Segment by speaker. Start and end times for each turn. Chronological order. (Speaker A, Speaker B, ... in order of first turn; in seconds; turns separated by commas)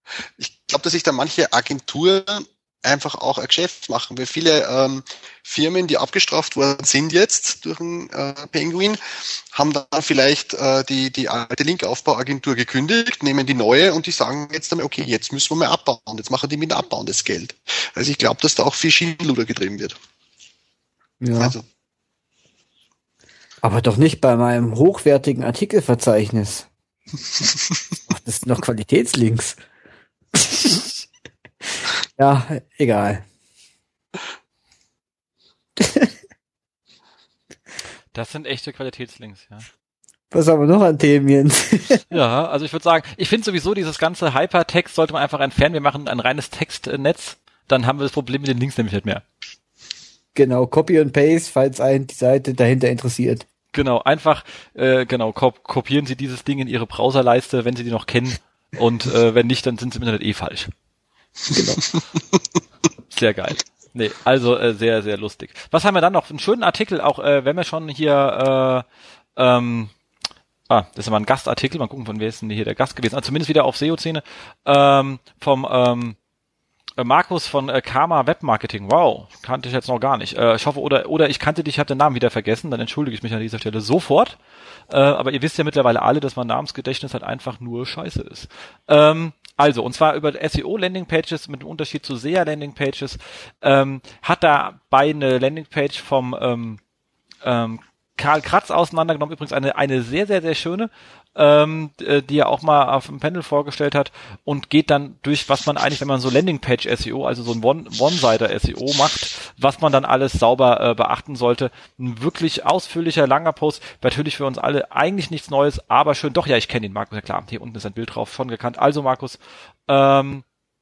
Speaker A: 0.4-9.0, Speaker A: 9.5-20.0, Speaker B: 21.2-21.6, Speaker A: 21.4-21.6, Speaker B: 23.6-26.7, Speaker B: 28.1-29.6, Speaker B: 30.3-30.9, Speaker B: 32.0-33.2, Speaker B: 35.8-36.1, Speaker C: 38.1-39.7, Speaker B: 40.3-42.0, Speaker C: 42.1-49.2, Speaker B: 50.4-53.5, Speaker C: 53.7-60.7, Speaker B: 61.5-61.8, Speaker C: 63.1-68.8, Speaker C: 69.4-69.9, Speaker C: 70.7-76.2, Speaker C: 77.0-84.4, Speaker C: 84.9-96.8, Speaker C: 97.4-120.5